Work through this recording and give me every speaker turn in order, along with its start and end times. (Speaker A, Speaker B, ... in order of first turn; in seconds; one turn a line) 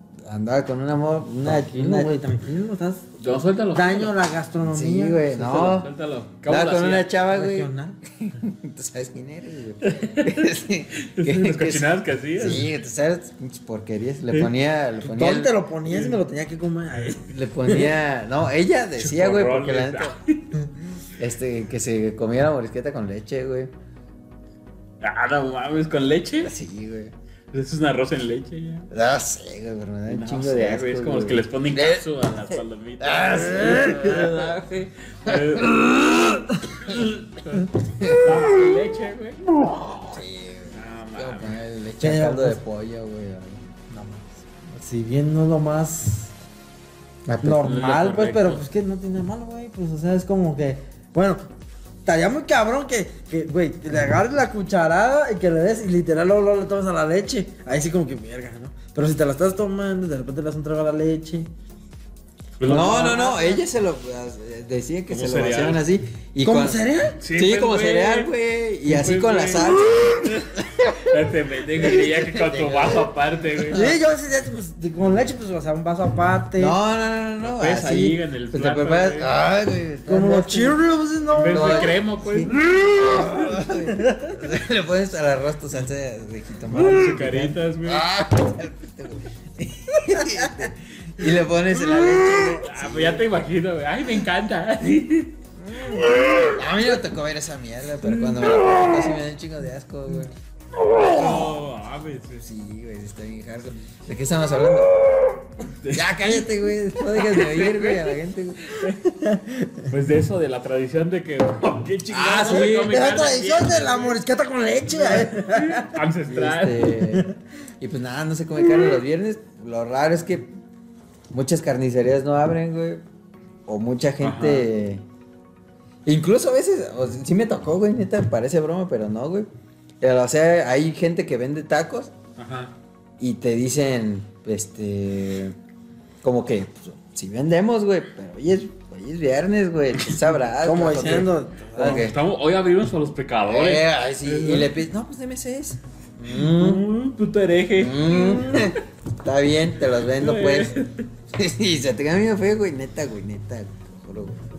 Speaker A: 0.2-2.1
Speaker B: 1.4-3.0
Speaker C: 3.2-4.1
Speaker B: 3.7-5.7
Speaker A: 4.7-5.9
Speaker C: 5.3-7.1
Speaker A: 6.5-15.5
Speaker B: 7.2-8.0
Speaker C: 9.8-10.4
Speaker C: 11.0-12.7
Speaker B: 15.0-18.0
Speaker C: 15.9-16.2
Speaker A: 17.3-20.2
Speaker C: 19.0-20.6
Speaker A: 21.2-23.7
Speaker C: 25.0-26.5
Speaker A: 26.4-27.1
Speaker C: 27.5-28.9
Speaker A: 28.9-34.8
Speaker C: 30.1-35.9
Speaker A: 35.3-36.4
Speaker C: 36.8-39.8
Speaker A: 37.9-38.5
Speaker A: 39.7-43.6
Speaker C: 40.7-41.6
Speaker B: 42.0-42.6
Speaker B: 43.9-46.3
Speaker A: 47.3-47.6
Speaker B: 47.4-51.4
Speaker C: 47.5-48.7
Speaker B: 52.0-61.5
Speaker C: 62.6-63.3
Speaker B: 62.6-63.6
Speaker A: 62.6-66.8
Speaker C: 65.1-65.8
Speaker B: 66.4-67.2
Speaker C: 67.2-68.3
Speaker A: 67.3-70.8
Speaker C: 68.8-73.9
Speaker A: 71.8-73.9
Speaker B: 73.7-76.8
Speaker A: 76.6-80.8
Speaker C: 77.4-79.3
Speaker B: 80.0-82.0
Speaker C: 81.3-82.6
Speaker A: 81.5-93.3
Speaker B: 82.5-84.5
Speaker C: 86.7-88.1
Speaker B: 90.1-90.6
Speaker B: 91.8-92.3
Speaker C: 92.3-95.4
Speaker A: 95.6-100.3
Speaker C: 100.9-102.5
Speaker A: 100.9-101.4
Speaker A: 102.4-105.0
Speaker C: 105.6-106.2
Speaker A: 105.9-108.8
Speaker B: 106.2-107.2
Speaker C: 107.2-108.2
Speaker B: 109.0-109.9
Speaker C: 109.9-114.2
Speaker B: 112.1-116.0
Speaker C: 115.1-117.0
Speaker A: 116.3-117.3
Speaker A: 117.8-120.5
Speaker A: 121.3-123.0
Speaker A: 123.7-125.0
Speaker C: 124.2-124.7
Speaker A: 126.0-129.5
Speaker A: 130.0-132.1
Speaker C: 132.4-132.7
Speaker A: 133.2-135.6
Speaker A: 136.2-142.2
Speaker B: 140.6-142.1
Speaker C: 141.8-144.7
Speaker A: 143.4-146.8
Speaker C: 146.3-148.8
Speaker A: 147.8-150.8
Speaker C: 150.1-151.1
Speaker A: 151.3-154.4